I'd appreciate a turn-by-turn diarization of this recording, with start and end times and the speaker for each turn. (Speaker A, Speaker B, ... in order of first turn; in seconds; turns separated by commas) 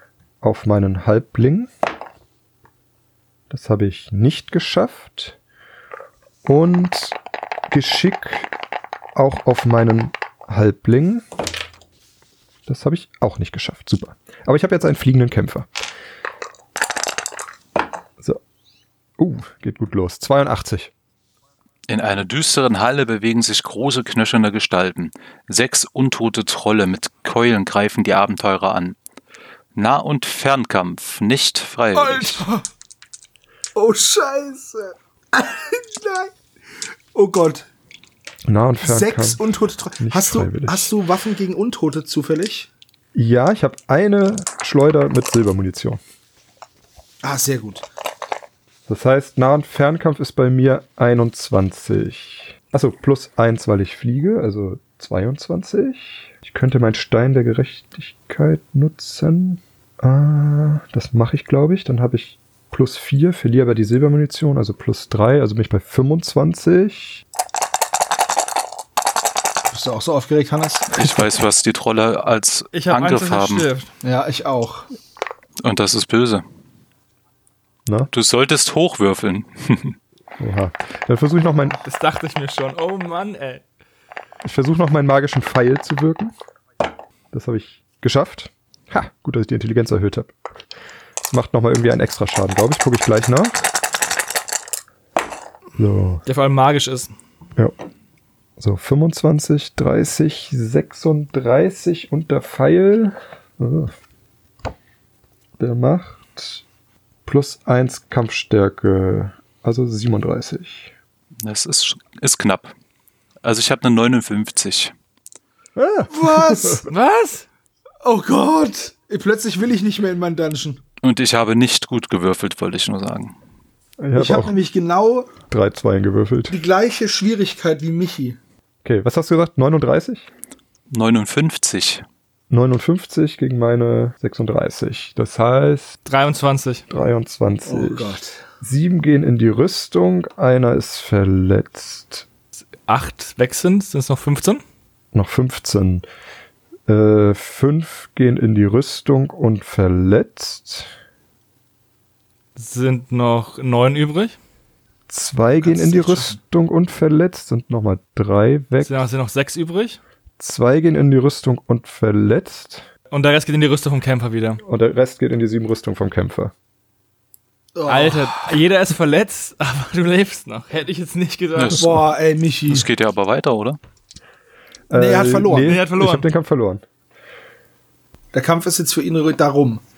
Speaker A: 0.4-1.7, Speaker A: 3.5-5.4, Speaker A: 6.4-7.2, Speaker A: 7.7-8.5, Speaker A: 9.1-11.2, Speaker A: 12.7-15.7, Speaker A: 19.2-20.9, Speaker B: 21.9-28.9, Speaker B: 29.7-32.5, Speaker C: 31.9-32.6, Speaker C: 33.7-36.3, Speaker C: 37.1-37.7, Speaker A: 38.5-39.4, Speaker C: 38.8-42.7, Speaker A: 40.0-40.9, Speaker A: 43.1-46.0, Speaker C: 47.2-47.9, Speaker A: 48.9-67.2, Speaker C: 69.7-70.9, Speaker B: 70.9-73.7, Speaker D: 72.7-73.9, Speaker C: 74.0-74.9, Speaker B: 75.6-76.4, Speaker B: 78.1-80.0, Speaker A: 80.4-81.8, Speaker D: 81.8-83.6, Speaker A: 84.4-86.3, Speaker A: 87.3-90.3, Speaker A: 91.3-93.7, Speaker A: 95.8-96.2, Speaker D: 96.2-97.1, Speaker A: 98.6-103.9, Speaker A: 105.6-106.6, Speaker A: 107.2-110.9, Speaker B: 111.4-112.7, Speaker B: 113.4-114.9, Speaker A: 115.8-116.9, Speaker C: 116.1-116.9, Speaker D: 116.9-117.5, Speaker C: 118.0-120.8, Speaker B: 121.0-123.3, Speaker A: 124.0-124.5, Speaker C: 124.2-125.3, Speaker A: 125.5-126.6, Speaker C: 126.5-128.4, Speaker A: 128.8-130.3, Speaker B: 130.9-132.0, Speaker A: 132.5-136.0, Speaker D: 136.0-136.8, Speaker A: 136.9-142.2, Speaker C: 137.7-138.4, Speaker D: 142.9-144.6, Speaker A: 145.1-146.0, Speaker A: 146.9-150.9, Speaker D: 152.6-154.3, Speaker A: 155.1-159.0, Speaker C: 155.6-156.4, Speaker D: 158.8-160.0, Speaker A: 160.4-162.9, Speaker D: 163.1-164.6, Speaker A: 164.6-166.5, Speaker C: 167.8-168.5, Speaker D: 167.9-171.8, Speaker B: 171.6-172.0, Speaker C: 171.7-172.9, Speaker B: 172.7-173.8, Speaker A: 174.9-176.8, Speaker C: 174.9-175.8, Speaker D: 175.6-176.2, Speaker C: 178.3-179.8